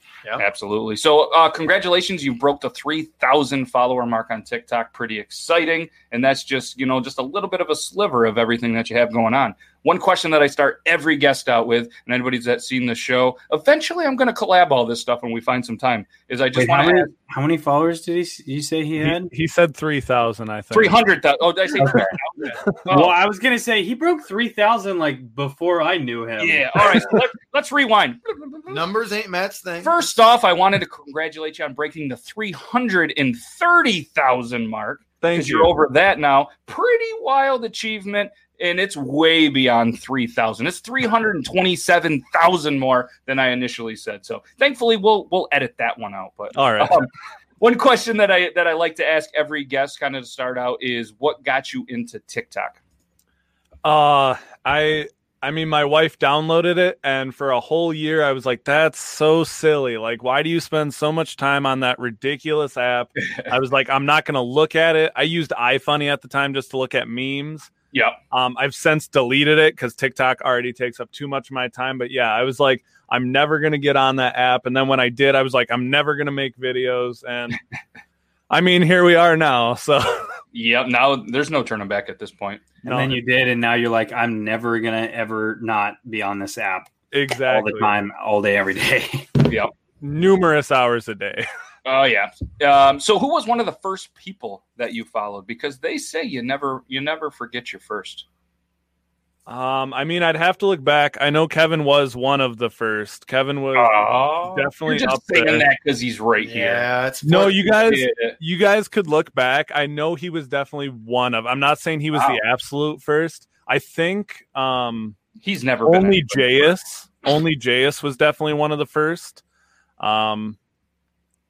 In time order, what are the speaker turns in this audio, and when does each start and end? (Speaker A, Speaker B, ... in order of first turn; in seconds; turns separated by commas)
Speaker A: 0.4-17.1, Speaker B: 16.6-19.3, Speaker C: 19.0-21.0, Speaker A: 20.7-23.2, Speaker B: 21.8-22.1, Speaker B: 22.9-26.9, Speaker A: 26.4-28.8, Speaker D: 28.7-29.9, Speaker A: 29.8-52.8, Speaker C: 35.2-35.8, Speaker C: 46.5-47.0, Speaker C: 53.8-67.7, Speaker A: 67.9-68.2, Speaker C: 68.3-77.6, Speaker C: 78.5-80.3, Speaker A: 80.5-82.7, Speaker B: 82.8-86.9, Speaker C: 82.9-83.2, Speaker C: 87.1-88.0, Speaker B: 87.5-89.3, Speaker C: 90.0-91.5, Speaker A: 91.8-98.2, Speaker C: 99.5-105.7, Speaker A: 103.8-106.9, Speaker D: 106.4-107.8, Speaker C: 107.2-115.2, Speaker A: 107.7-108.4, Speaker A: 112.1-112.4, Speaker A: 115.4-116.7, Speaker C: 115.9-119.4, Speaker C: 120.0-120.6